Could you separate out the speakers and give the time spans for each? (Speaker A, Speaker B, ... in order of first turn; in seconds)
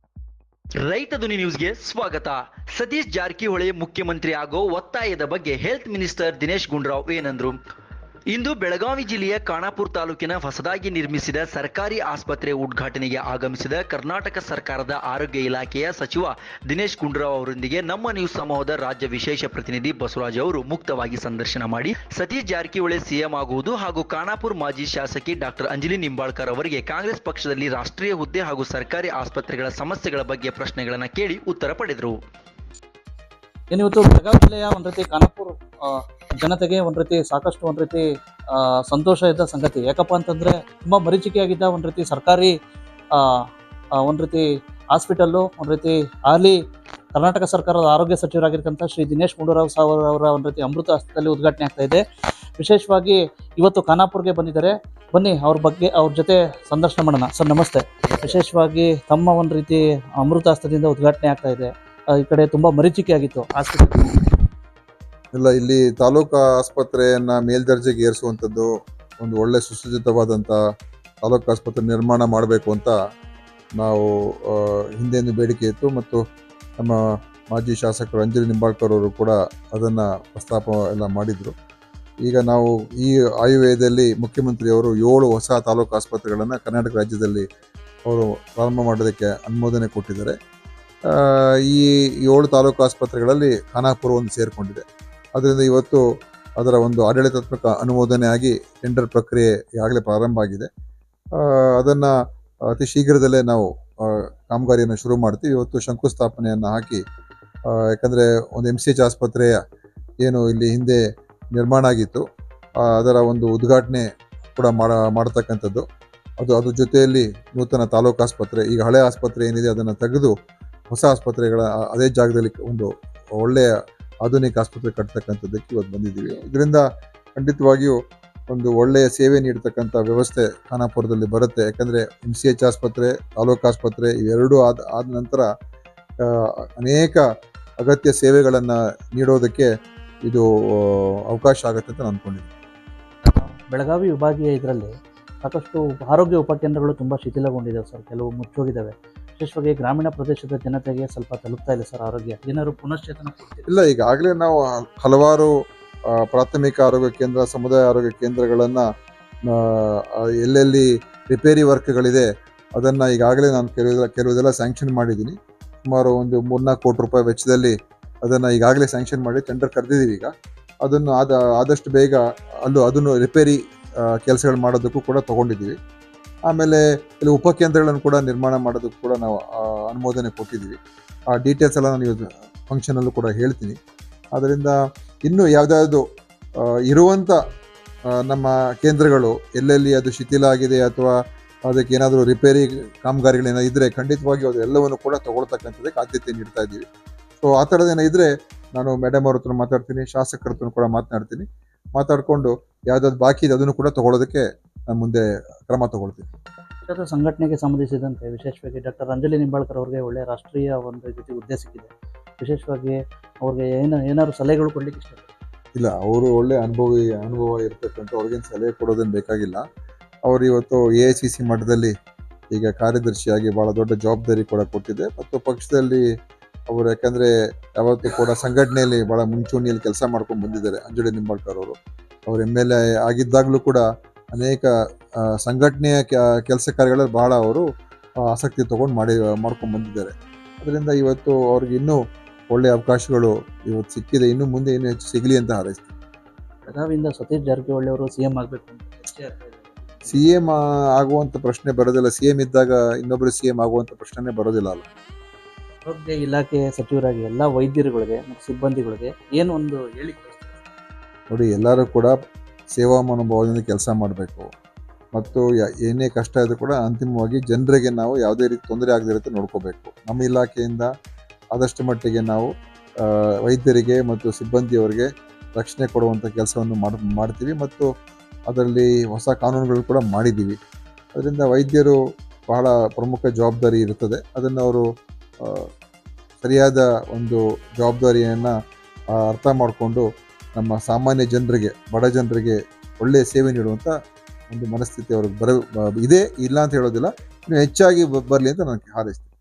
Speaker A: 0.8-7.6, 8.3-32.2
Speaker B: 33.7-42.5, 43.1-46.6, 47.1-52.0, 52.6-64.4, 143.2-153.8, 206.9-215.3, 246.7-250.2, 255.8-260.6
Speaker C: 65.3-70.6, 71.2-73.0, 73.8-76.2, 76.8-81.5, 82.2-87.4, 88.1-90.3, 91.1-94.8, 95.4-96.0, 96.6-100.7, 101.4-102.1, 102.7-107.0, 107.7-109.6, 110.2-111.0, 111.5-112.2, 112.8-115.8, 116.4-120.3, 120.9-123.7, 124.2-126.8, 127.4-128.0, 128.5-135.5, 136.2-137.3, 137.8-139.7, 140.3-142.5, 153.7-155.5, 156.1-158.9, 159.5-170.3, 170.8-175.8, 176.5-180.8, 181.3-183.8, 184.3-186.0, 186.6-187.4, 188.1-191.2, 191.7-196.8, 197.4-201.4, 202.0-206.3, 215.8-219.6, 220.3-221.9, 222.5-226.0, 226.7-231.8, 232.3-234.7, 235.2-237.7, 238.2-242.0, 242.5-245.9, 250.1-254.9, 261.3-262.1, 262.7-264.5, 265.1-270.9, 271.5-277.9, 278.5-280.6, 281.1-282.0, 282.5-284.9, 286.4-288.5, 289.1-293.9, 294.5-299.3